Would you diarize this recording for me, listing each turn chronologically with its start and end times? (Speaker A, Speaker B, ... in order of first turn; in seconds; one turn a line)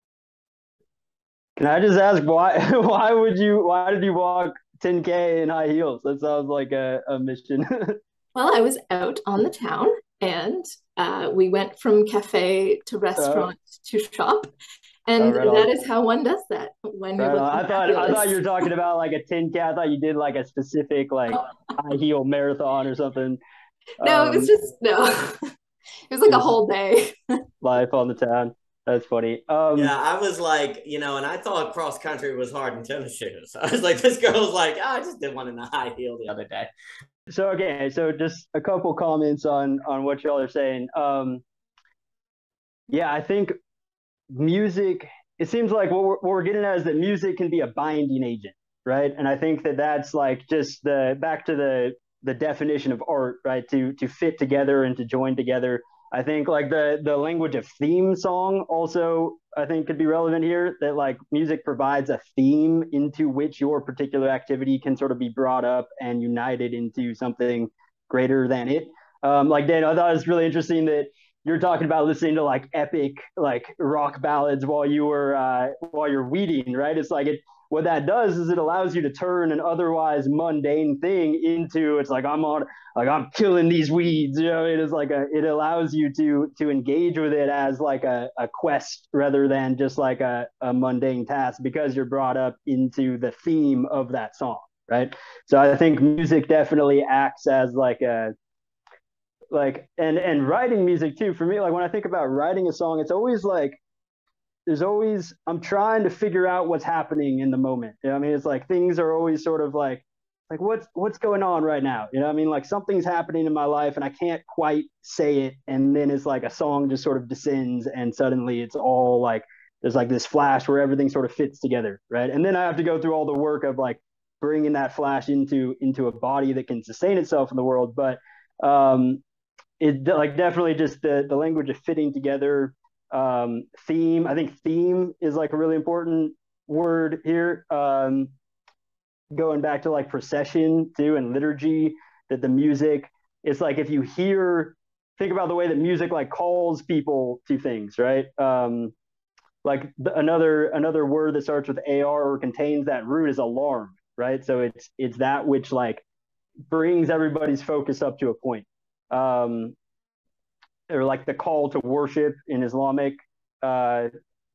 Speaker A: 1.6-8.0
Speaker B: 8.3-14.5
Speaker A: 13.2-13.5
Speaker B: 15.1-18.4
Speaker A: 15.2-15.7
Speaker A: 17.2-23.4
Speaker A: 24.0-24.5
Speaker B: 24.0-25.5
Speaker B: 26.1-27.4
Speaker A: 27.6-29.9
Speaker C: 29.7-36.7
Speaker A: 37.3-41.4
Speaker A: 42.9-43.5
Speaker A: 44.3-98.3
Speaker A: 99.5-103.8
Speaker A: 104.7-129.2
Speaker A: 129.8-138.3
Speaker A: 139.3-148.9
Speaker A: 149.6-156.0
Speaker A: 156.7-159.7
Speaker A: 160.9-164.1